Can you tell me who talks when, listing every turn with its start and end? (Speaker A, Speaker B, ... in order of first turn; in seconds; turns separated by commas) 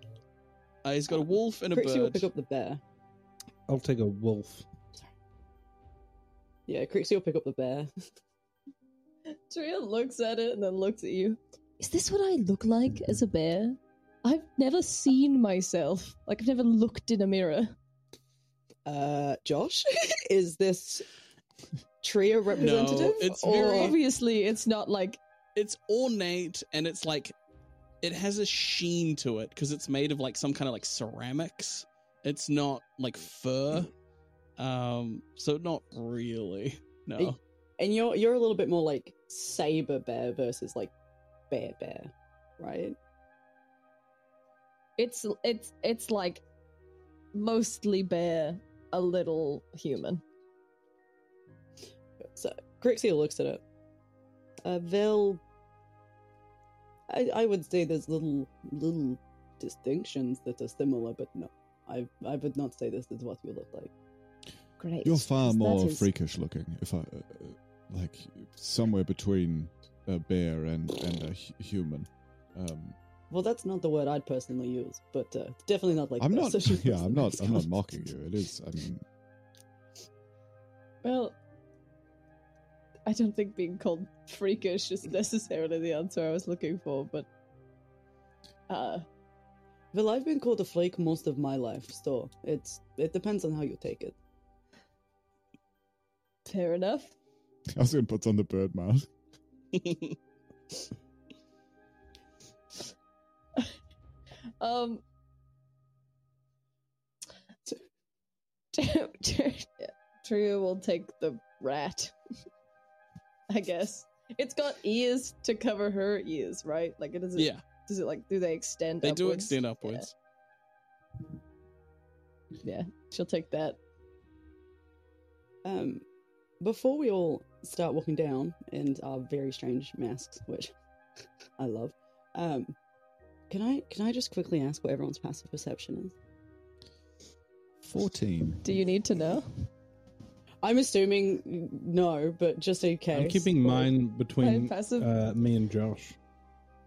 Speaker A: 0.8-2.3, Speaker B: 1.1-2.8, Speaker C: 3.7-4.7, Speaker B: 6.7-7.9, Speaker D: 9.5-17.8, Speaker B: 18.9-21.1, Speaker B: 22.0-23.9, Speaker A: 22.6-24.0, Speaker D: 22.6-25.2, Speaker A: 25.6-27.4, Speaker A: 28.0-33.9, Speaker A: 34.6-37.4, Speaker B: 37.2-40.9, Speaker B: 41.5-43.0, Speaker D: 45.0-46.4, Speaker D: 47.3-50.2, Speaker B: 52.3-53.6, Speaker B: 54.6-55.4, Speaker B: 57.1-63.9, Speaker D: 64.8-66.1, Speaker E: 65.0-73.0, Speaker B: 73.3-77.7, Speaker E: 76.2-79.0, Speaker D: 81.0-81.4, Speaker D: 83.1-87.3, Speaker D: 88.7-89.1, Speaker B: 89.9-94.2, Speaker D: 96.5-97.1, Speaker E: 97.7-99.1, Speaker A: 99.7-100.2, Speaker D: 104.6-105.0, Speaker D: 108.7-112.2, Speaker D: 113.5-120.1, Speaker A: 117.4-117.6, Speaker A: 119.0-120.1, Speaker D: 122.6-123.8, Speaker B: 125.6-126.0, Speaker B: 126.6-130.7, Speaker B: 131.6-132.8, Speaker B: 133.5-136.2, Speaker E: 137.8-138.6, Speaker D: 138.6-139.7, Speaker B: 140.6-143.9, Speaker C: 143.1-146.2, Speaker D: 144.4-145.1